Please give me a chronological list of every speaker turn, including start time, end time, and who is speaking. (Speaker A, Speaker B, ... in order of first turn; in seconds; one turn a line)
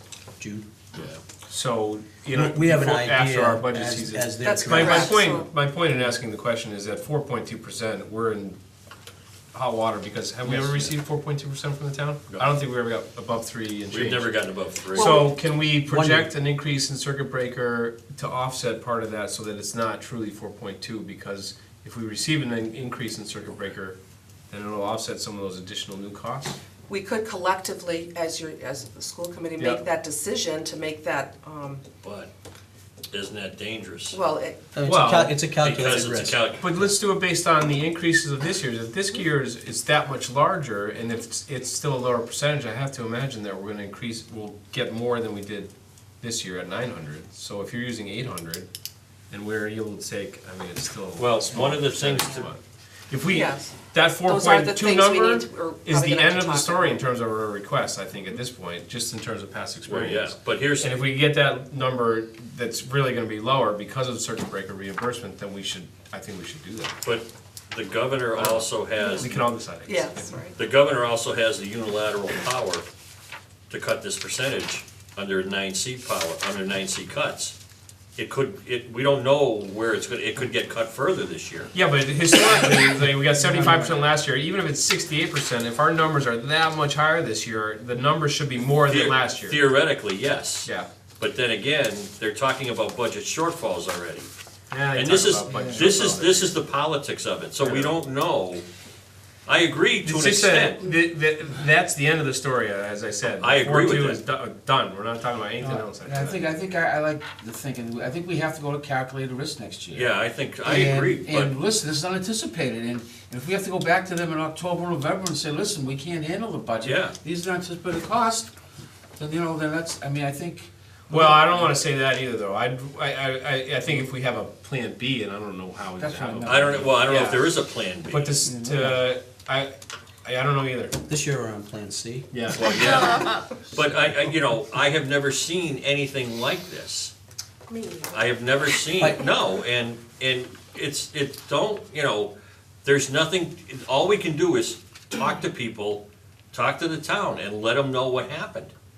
Speaker A: 0.4-0.7
Speaker B: 0.9-1.2
Speaker C: 1.5-8.6
Speaker A: 2.3-5.2
Speaker D: 4.4-5.5
Speaker C: 9.5-14.3
Speaker B: 13.9-15.2
Speaker C: 14.9-24.0
Speaker D: 14.9-15.4
Speaker A: 15.9-16.3
Speaker C: 24.5-26.6
Speaker D: 26.9-31.8
Speaker B: 32.0-32.3
Speaker B: 33.1-34.2
Speaker D: 34.1-34.6
Speaker A: 34.7-36.9
Speaker C: 34.8-35.4
Speaker B: 35.6-36.6
Speaker C: 36.6-48.7
Speaker C: 49.3-67.0
Speaker B: 51.2-52.5
Speaker D: 53.3-57.0
Speaker B: 59.9-61.0
Speaker B: 67.0-69.4
Speaker C: 68.3-70.4
Speaker D: 69.0-69.3
Speaker D: 69.9-70.6
Speaker B: 70.6-72.9
Speaker B: 73.7-77.5
Speaker B: 78.2-81.7
Speaker C: 81.7-89.6
Speaker E: 83.3-83.9
Speaker B: 88.9-94.3
Speaker C: 94.7-96.6
Speaker B: 94.9-98.7
Speaker E: 95.5-96.0
Speaker C: 97.6-98.0
Speaker B: 99.5-100.9
Speaker C: 100.0-106.4
Speaker B: 103.4-104.2
Speaker E: 105.6-118.5
Speaker B: 109.9-111.5
Speaker B: 116.8-117.2
Speaker E: 119.2-121.7
Speaker C: 121.1-127.5
Speaker E: 126.0-127.0
Speaker B: 126.4-128.4
Speaker C: 128.1-129.7
Speaker E: 128.4-129.1
Speaker C: 130.2-131.0
Speaker A: 131.1-132.3
Speaker C: 132.3-133.4
Speaker B: 132.6-137.1
Speaker D: 137.7-138.3
Speaker B: 138.1-148.7
Speaker A: 139.0-139.3